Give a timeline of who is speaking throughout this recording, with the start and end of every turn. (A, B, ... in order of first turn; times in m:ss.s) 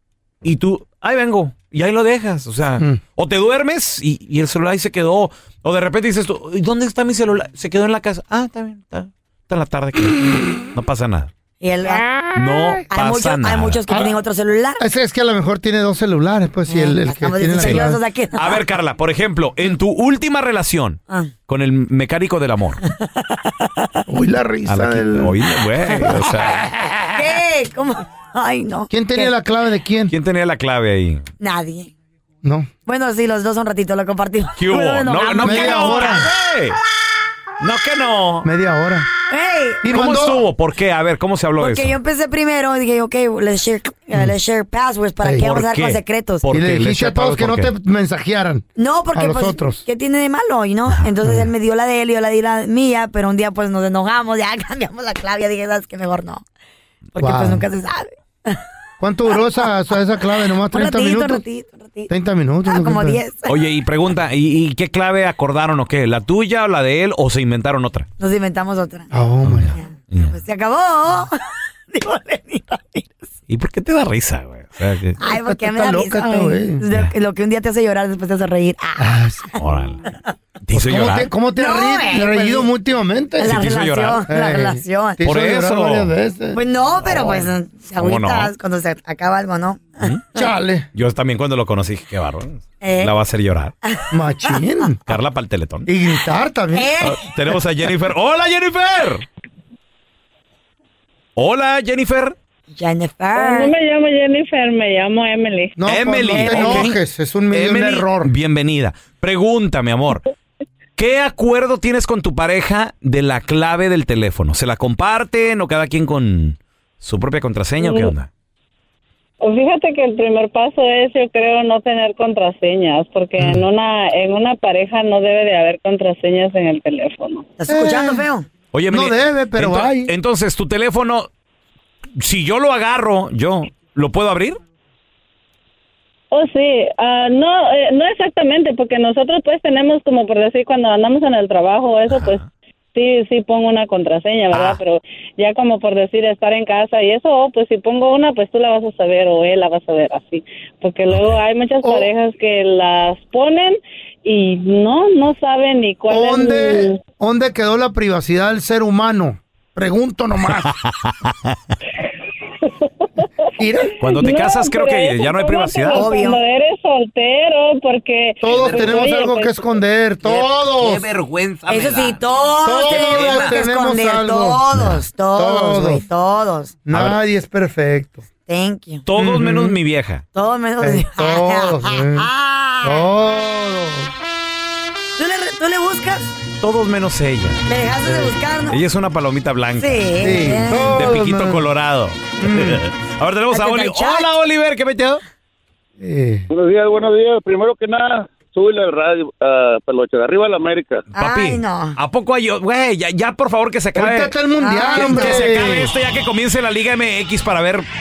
0:00.4-0:11.3 A
0:11.6-0:12.1 B
0:12.3-0:13.8 A
0:12.9-0:14.8 B
0:13.9-0:14.1 C
0:14.8-0:18.0 C
0:16.7-0:18.6 B
0:17.6-0:22.8 A
0:22.8-0:24.0 B
0:24.1-0:25.3 C
0:24.7-0:26.8 A
0:27.1-0:29.3 B
0:28.9-0:30.1 C
0:30.1-0:31.3 A
0:31.4-0:31.9 B
0:32.4-0:32.7 C
0:32.9-0:36.3 B
0:34.6-0:36.8 A
0:35.4-0:36.3 C
0:37.6-0:38.5 A
0:38.4-0:39.1 C
0:39.3-0:39.9 B
0:39.8-0:40.4 C
0:39.9-0:42.0 A
0:41.6-0:46.5 B
0:45.2-0:45.5 C
0:45.4-0:47.7 A
0:46.5-0:49.8 C
0:48.8-0:56.4 B
0:57.2-0:58.6 B
0:57.2-0:57.7 C
0:59.0-1:01.4 C
0:59.3-0:59.6 B
1:00.7-1:02.1 B
1:02.1-1:03.2 C
1:02.6-1:03.6 B
1:03.5-1:08.1 A
1:08.2-1:09.1 B
1:09.1-1:09.8 C
1:09.4-1:10.4 A
1:09.7-1:11.4 B
1:11.9-1:13.2 B
1:13.5-1:15.2 A
1:15.2-1:19.2 B
1:15.2-1:16.8 C
1:19.0-1:19.5 C
1:19.6-1:20.0 A
1:20.6-1:21.3 A
1:20.7-1:23.6 C
1:21.6-1:22.7 B
1:23.4-1:25.2 B
1:23.4-1:24.2 A
1:24.3-1:27.5 C
1:25.2-1:26.2 A
1:26.5-1:30.5 B
1:28.0-1:28.5 A
1:30.4-1:30.9 C
1:30.9-1:33.7 A
1:32.8-1:33.1 B
1:33.8-1:34.6 B
1:34.1-1:35.0 C
1:35.1-1:35.9 A
1:35.9-1:36.9 C
1:36.7-1:37.3 B
1:37.0-1:39.3 A
1:41.4-1:42.4 A
1:42.7-1:43.7 B
1:43.4-1:45.8 D
1:45.8-1:48.3 C
1:45.9-1:47.0 A
1:46.3-1:46.9 B
1:47.5-1:50.2 A
1:51.0-1:58.3 A
1:57.8-1:58.1 D
1:59.4-2:07.5 D
2:03.4-2:03.6 C
2:07.6-2:08.5 B
2:07.7-2:08.2 C
2:08.7-2:11.3 A
2:08.9-2:10.1 C
2:12.2-2:14.6 A
2:16.3-2:37.0 D
2:22.1-2:22.4 A
2:24.5-2:24.8 A
2:31.8-2:32.1 C
2:36.1-2:40.8 C
2:40.6-2:41.6 A
2:43.6-2:43.9 C
2:44.0-2:46.0 A
2:44.1-2:49.7 D
2:45.9-2:46.4 B
2:48.4-2:51.0 C
2:50.2-2:52.2 E
2:51.7-2:56.8 B
2:52.6-2:56.0 C
2:53.2-2:53.5 E
2:54.8-2:55.0 A
2:56.9-2:58.2 C
2:56.9-2:57.2 A
2:58.5-2:59.0 B
2:59.1-3:00.2 A
2:59.2-2:59.8 C
3:00.3-3:03.0 B
3:00.8-3:02.3 C
3:02.8-3:04.1 C
3:05.2-3:06.3 B
3:06.6-3:07.7 A
3:07.7-3:08.8 B
3:08.0-3:08.3 C
3:08.7-3:10.1 A
3:09.8-3:11.0 B
3:10.2-3:11.6 C
3:10.8-3:15.2 A
3:12.4-3:12.8 C
3:13.5-3:14.3 B
3:16.0-3:16.5 C
3:16.5-3:21.1 F
3:21.1-3:22.0 B
3:21.2-3:24.3 A
3:24.0-3:25.9 C
3:24.6-3:25.6 B
3:24.9-3:27.8 A